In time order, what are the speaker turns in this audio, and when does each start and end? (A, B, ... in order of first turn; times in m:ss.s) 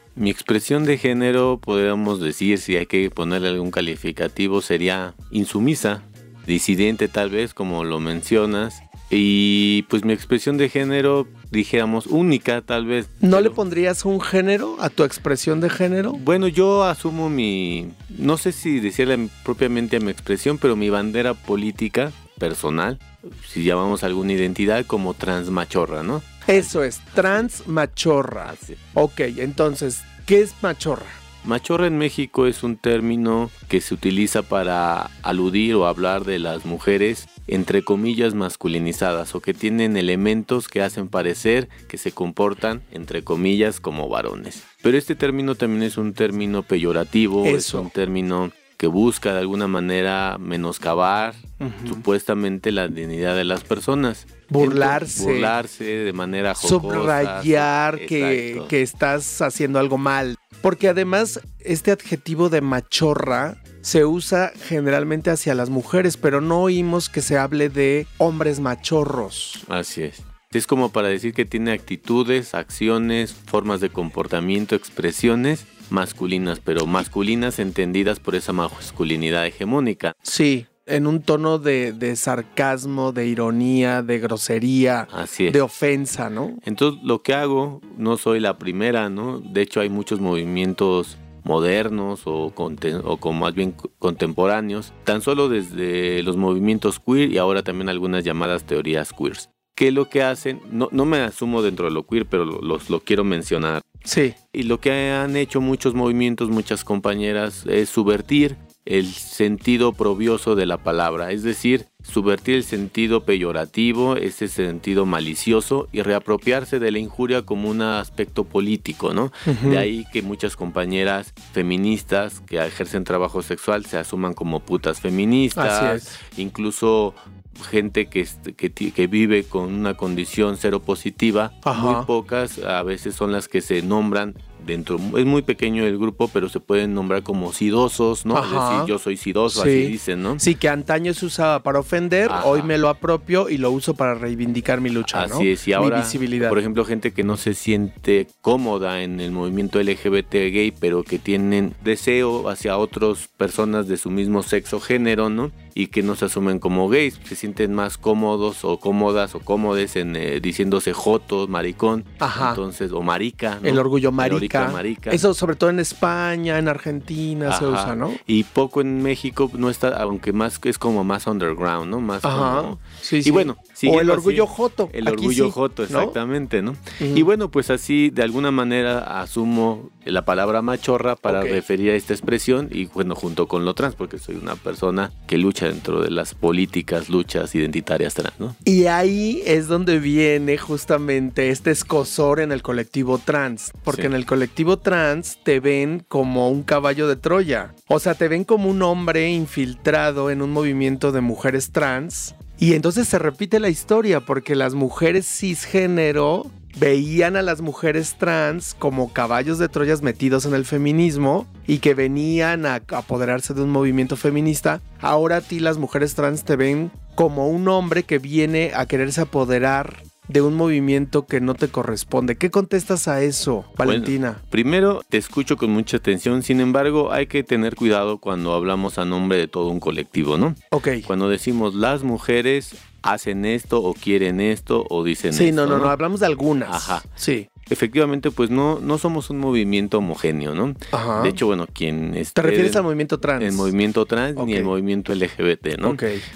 0:00.2-0:13.6 A
0:13.2-0:16.2 B
0:16.1-0:27.5 A
0:26.5-0:31.2 B
0:28.4-0:28.8 A
0:31.4-0:58.7 A
0:47.4-0:47.9 B
0:51.6-0:52.0 B
0:54.5-0:55.6 B
0:56.6-1:09.6 B
1:09.7-1:20.1 A
1:20.2-1:26.6 B
1:25.1-1:25.6 A
1:26.6-1:43.8 A
1:44.1-1:44.4 B
1:44.5-2:20.4 A
1:59.5-1:59.9 B
2:05.5-2:06.1 B
2:11.6-2:12.1 B
2:18.3-2:18.9 B
2:19.5-2:26.6 B
2:22.3-2:22.7 A
2:25.1-2:45.2 A
2:42.2-2:42.6 B
2:43.6-2:48.2 B
2:47.5-3:08.6 A
2:52.2-2:56.2 B
2:57.0-2:57.3 B
3:01.3-3:01.6 B
3:08.6-3:44.4 B
3:43.8-3:55.9 A
3:50.7-3:51.1 B
3:55.3-3:57.5 B
3:56.7-3:57.0 A
3:57.7-4:02.8 A
4:00.9-4:01.4 B
4:02.4-4:03.7 B
4:03.4-4:06.0 A
4:04.4-4:04.7 B
4:05.8-4:06.2 B